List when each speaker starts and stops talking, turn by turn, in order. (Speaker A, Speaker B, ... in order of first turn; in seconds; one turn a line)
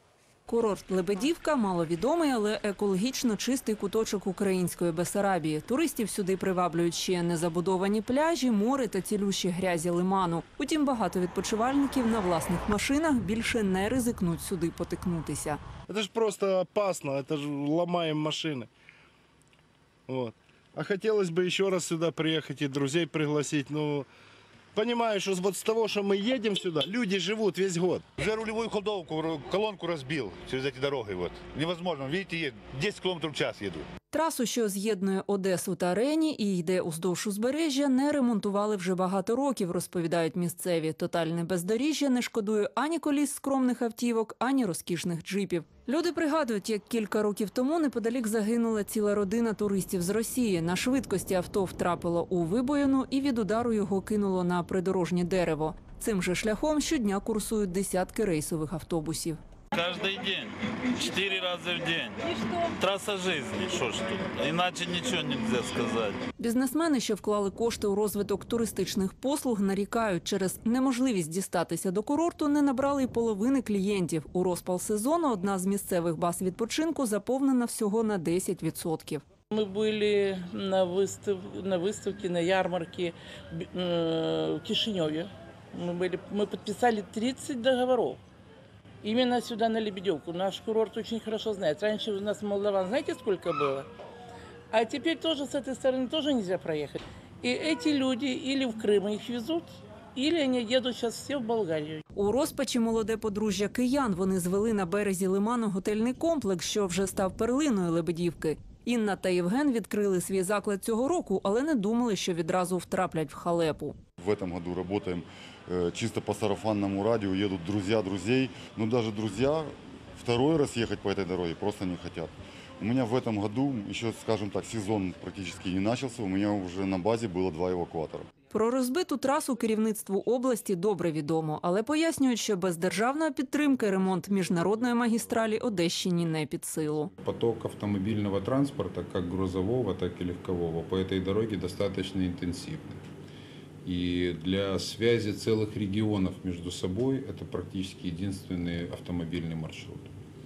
Speaker A: 0.5-15.6
Speaker B: 15.9-18.7
Speaker B: 20.1-24.1
Speaker B: 24.8-28.0
Speaker C: 28.2-33.9
Speaker A: 34.1-59.4
Speaker D: 59.7-66.2
Speaker A: 66.4-79.2
Speaker E: 79.5-88.2
Speaker E: 89.0-93.9
Speaker E: 94.7-102.0
Speaker A: 102.1-114.0
Speaker F: 114.2-128.3
Speaker A: 128.5-137.1
Speaker G: 137.2-143.0
Speaker G: 143.8-150.1